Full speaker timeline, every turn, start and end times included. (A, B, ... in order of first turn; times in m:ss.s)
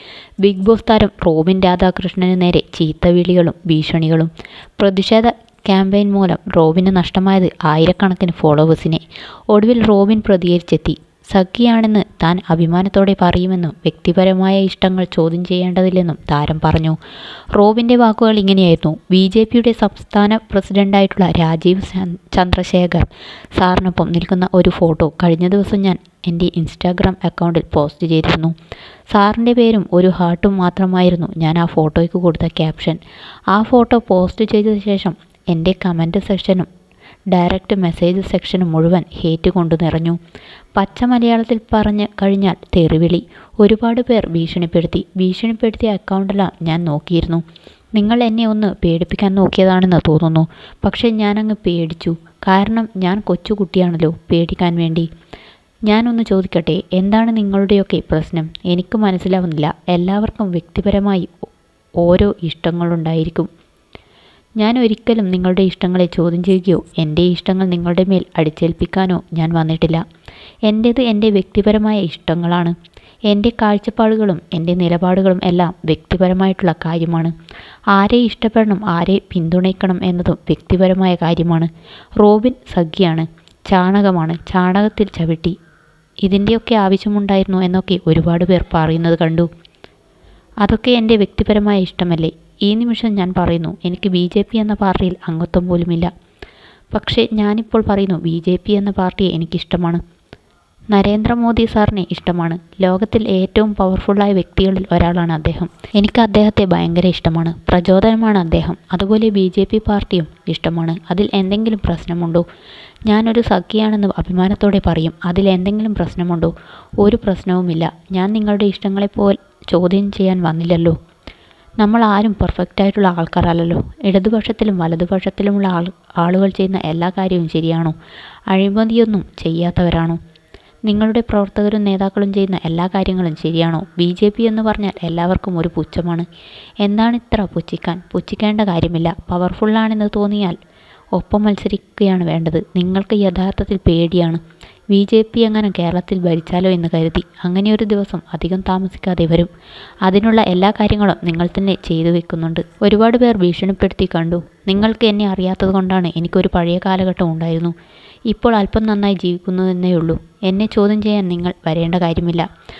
0:00.4-0:09.0 A
0:09.5-0:17.0 A
0:17.6-0:23.1 A
0:23.6-0:28.5 A
0:29.1-0:33.0 A
0:33.5-0:36.7 A
0:37.3-0:40.2 A
0:40.8-0:47.4 A
0:48.0-0:55.1 A
0:55.9-1:01.3 A
1:02.0-1:03.5 A
1:04.6-1:10.0 A
1:10.7-1:12.8 A
1:13.3-1:17.3 A
1:18.0-1:21.7 A
1:22.2-1:25.6 A
1:26.3-1:29.5 A
1:30.6-1:36.1 A
1:36.9-1:40.0 A
1:40.9-1:52.4 A
1:53.1-1:56.5 A
1:57.0-2:01.0 A
2:01.8-2:08.0 A
2:08.5-2:10.2 A
2:10.9-2:16.3 A
2:16.8-2:20.6 A
2:21.2-2:24.4 A
2:24.9-2:29.5 A
2:30.1-2:37.7 A
2:38.3-2:42.5 A